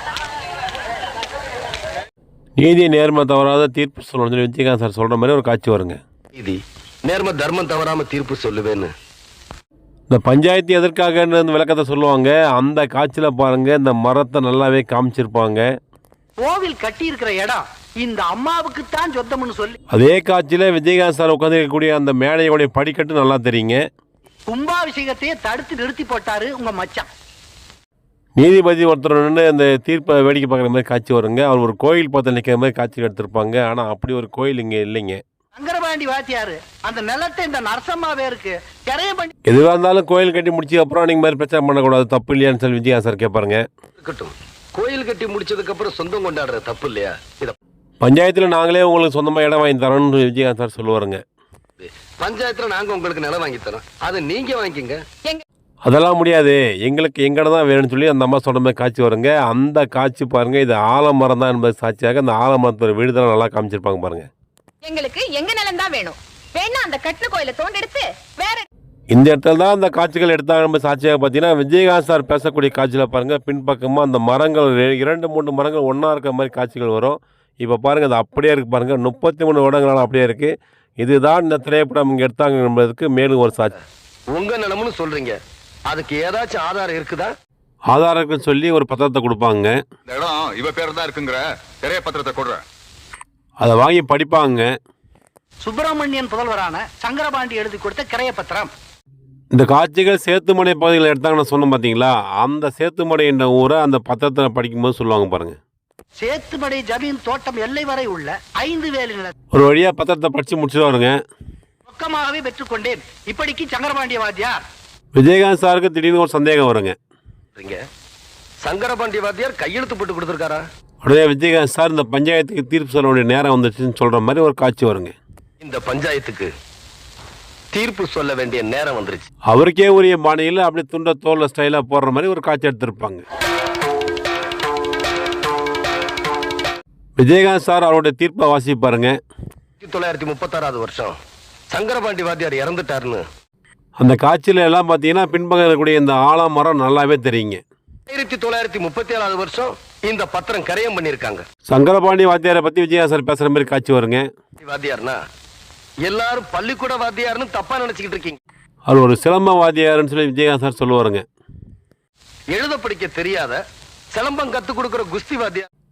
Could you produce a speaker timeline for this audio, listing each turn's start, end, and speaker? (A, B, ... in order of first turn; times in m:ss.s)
0:02.6-0:06.0 A
0:06.4-0:08.9 B
0:10.1-0:15.6 A
0:16.4-0:19.8 C
0:19.9-0:23.8 A
0:24.5-0:27.1 C
0:28.4-0:35.2 A
0:35.6-0:39.3 C
0:39.5-0:43.6 A
0:44.0-0:47.6 B
0:48.0-0:51.2 A
0:51.8-0:55.0 B
0:55.9-1:04.3 A
1:04.8-1:08.7 D
1:09.1-1:23.7 A
1:24.3-1:25.4 B
1:25.9-1:27.3 B
1:27.9-1:29.7 A
1:30.1-1:32.6 E
1:33.6-1:34.6 A
1:35.6-1:38.7 C
1:39.5-1:45.6 A
1:46.2-1:49.3 C
1:49.5-1:51.1 A
1:51.9-1:54.6 C
1:55.2-1:57.0 A
1:58.6-2:00.6 B
2:01.0-2:05.2 A
2:05.6-2:06.5 B
2:07.7-2:09.3 B
2:09.5-2:13.2 A
2:17.2-2:19.1 A
2:19.8-2:21.1 B
2:21.7-2:23.2 B
2:24.0-2:27.6 A
2:28.1-2:31.4 B
2:31.7-2:34.3 A
2:34.6-2:35.2 B
2:36.0-2:38.4 B
2:38.9-2:41.2 A
2:42.5-2:43.6 B
2:44.1-2:45.7 B